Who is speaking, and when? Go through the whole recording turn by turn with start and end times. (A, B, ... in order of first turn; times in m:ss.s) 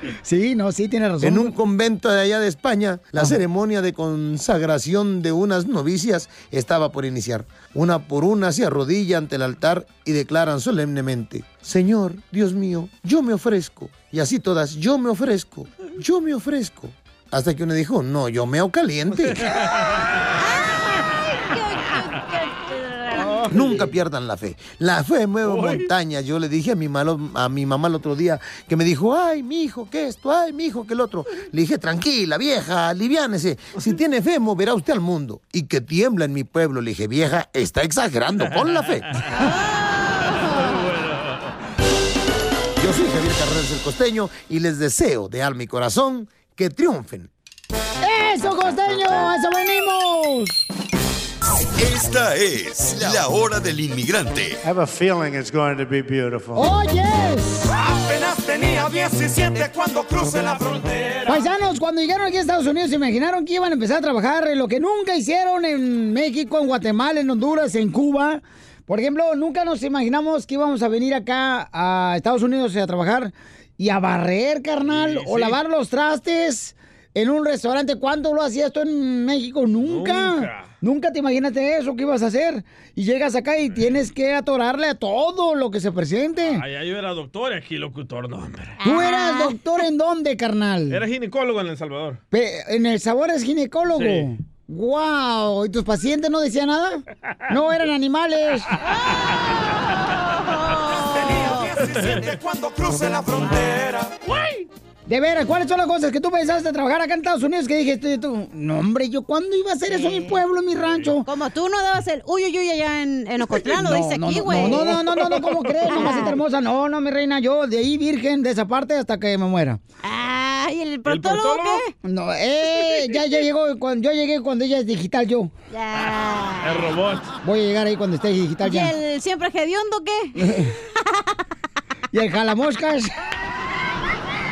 0:00.2-0:01.6 A
0:01.2-0:19.5 B
0:19.2-0:20.1 C
0:20.4-0:23.5 D
0:23.2-0:23.7 C
0:23.5-0:39.1 B
0:25.4-0:25.9 C
0:38.5-0:39.4 C
0:39.4-0:40.8 D
0:40.4-0:41.6 C
0:42.8-0:47.3 B
0:48.0-0:50.6 A
0:51.8-0:54.6 E
0:54.6-0:56.7 F
0:56.5-0:57.7 A
0:58.2-0:59.3 G
0:59.9-1:01.1 G
1:01.3-1:26.6 A
1:14.8-1:15.6 C
1:19.8-1:20.7 C
1:26.4-1:28.8 C
1:28.8-1:29.6 D
1:28.8-1:31.0 A
1:30.9-1:32.2 C
1:32.3-1:38.7 A
1:34.0-1:34.3 C
1:39.1-1:41.7 D
1:41.3-1:41.6 G
1:41.8-1:42.3 C
1:42.3-1:44.1 G
1:43.5-1:43.7 D
1:45.1-1:51.3 A
1:49.9-1:50.4 D
1:51.3-1:54.9 D
1:53.8-1:59.8 A
1:55.9-1:56.4 D
2:00.0-2:01.9 D
2:01.1-2:01.8 C
2:02.0-2:05.5 A
2:05.7-2:06.8 D
2:06.6-2:07.3 C
2:07.4-2:08.9 A
2:08.6-2:11.2 D
2:10.4-2:10.7 A
2:12.1-2:13.1 A